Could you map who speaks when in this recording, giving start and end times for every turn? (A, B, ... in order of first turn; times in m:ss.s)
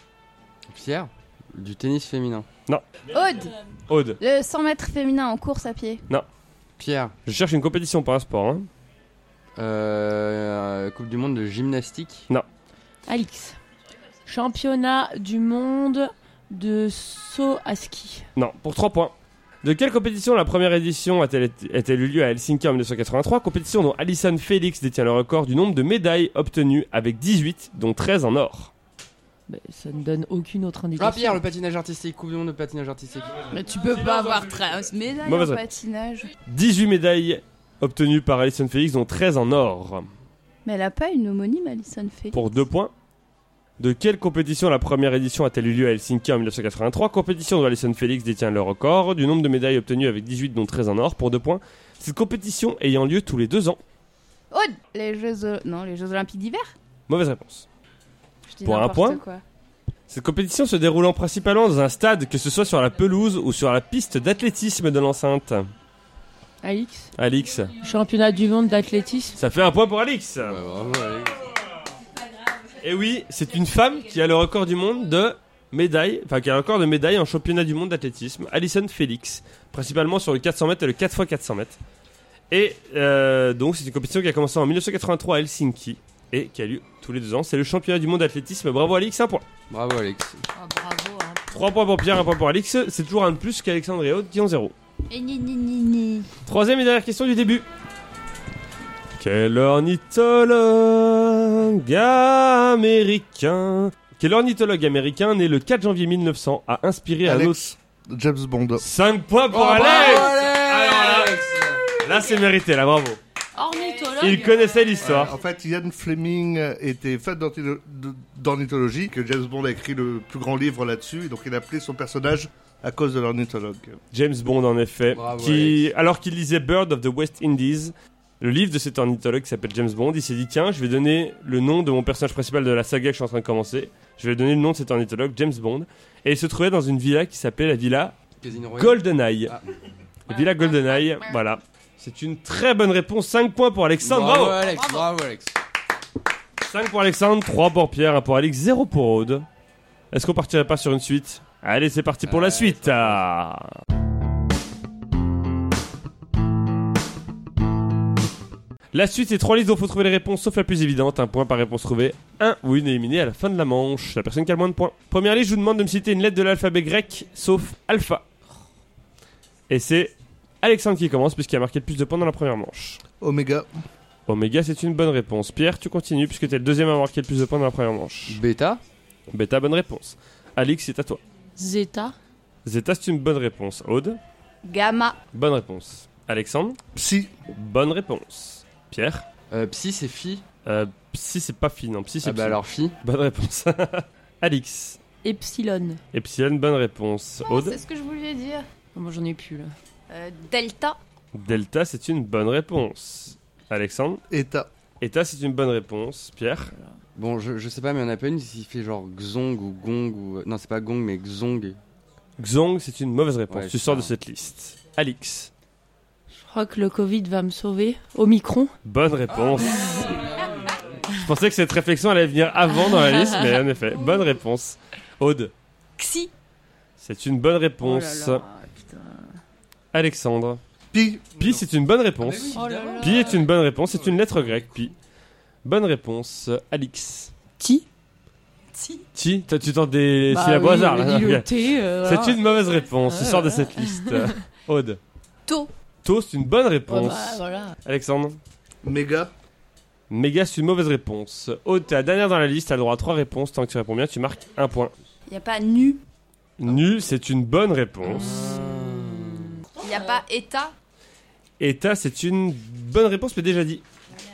0:00.7-0:02.5 A
0:03.1-0:03.5 B
0:03.9-0:04.2 C
0:04.2-0:06.0 B
0:06.8-0:07.1 A
0:07.2-0:08.7 C
0:09.6-0:12.3 A
0:13.1-0:13.6 D
0:14.3-0:18.3 D
0:18.4-0:28.7 C
0:29.5-0:31.4 D
0:31.0-0:33.5 A
0:33.5-0:36.3 B
0:33.9-0:35.7 C
0:36.4-0:40.1 C
0:40.6-0:42.4 B
0:42.3-0:42.9 C
0:43.8-0:53.8 C
0:54.5-0:56.7 B
0:57.1-0:57.6 C
0:58.5-0:59.4 B
0:58.6-0:59.2 C
1:00.1-1:05.7 C
1:06.6-1:07.1 D
1:07.2-1:07.7 C
1:07.8-1:09.4 D
1:09.4-1:10.6 C
1:10.4-1:11.4 A
1:12.8-1:21.8 C
1:22.5-1:29.5 C
1:29.7-1:30.4 A
1:30.5-1:31.4 D
1:31.5-1:34.7 C
1:35.1-1:36.3 B
1:36.4-1:37.6 C
1:39.2-1:47.6 C
1:47.2-1:48.8 E
1:48.8-1:51.4 C
1:49.5-1:51.9 A
1:52.0-1:53.2 C
1:53.5-1:54.7 D
1:54.2-1:55.3 C
1:55.0-2:04.0 E
2:04.1-2:18.2 C
2:05.1-2:05.9 A
2:18.4-2:19.7 A
2:18.8-2:19.6 C
2:20.3-2:24.7 C
2:20.3-2:21.2 B
2:24.0-2:25.5 A
2:24.8-2:25.1 B
2:26.6-2:29.5 C
2:30.1-2:33.7 C
2:32.2-2:33.2 A
2:38.9-2:48.3 C
2:49.7-2:53.0 C
2:53.2-2:53.7 E
2:54.3-2:58.4 C
2:58.3-2:58.8 A
2:59.3-3:01.2 C
3:01.6-3:02.1 D
3:02.6-3:04.2 C
3:04.6-3:05.2 B
3:05.3-3:06.8 C
3:06.9-3:07.3 E
3:07.5-3:09.2 C
3:09.5-3:10.4 A
3:10.6-3:15.0 C
3:12.2-3:13.0 A
3:15.2-3:16.0 D
3:16.1-3:17.8 C
3:17.5-3:18.7 B
3:18.9-3:19.7 D
3:20.1-3:21.0 B
3:21.3-3:24.2 C
3:24.3-3:24.7 E
3:25.0-3:26.7 C
3:27.2-3:31.8 A
3:32.4-3:35.5 C
3:33.5-3:34.1 A
3:36.3-3:38.7 D
3:38.8-3:40.2 C
3:39.3-3:41.1 A
3:39.8-3:40.1 D
3:41.1-3:45.5 C
3:46.0-3:46.3 B
3:47.0-3:48.4 C
3:47.8-3:49.3 D
3:49.9-3:50.6 C
3:50.9-3:51.6 E
3:51.4-3:54.9 C
3:52.2-3:53.5 A
3:52.5-3:53.4 D
3:54.1-3:54.6 A
3:55.6-3:57.3 C
3:57.6-3:57.8 D
3:59.1-4:01.5 C
4:00.3-4:02.4 D
4:02.0-4:05.0 C
4:03.1-4:04.4 D
4:06.0-4:08.4 C
4:06.9-4:07.8 D
4:08.8-4:09.3 E
4:10.1-4:14.9 C
4:15.3-4:16.0 B
4:16.6-4:18.5 C
4:18.0-4:19.6 A
4:18.3-4:18.9 D
4:19.8-4:20.7 B
4:21.6-4:23.8 C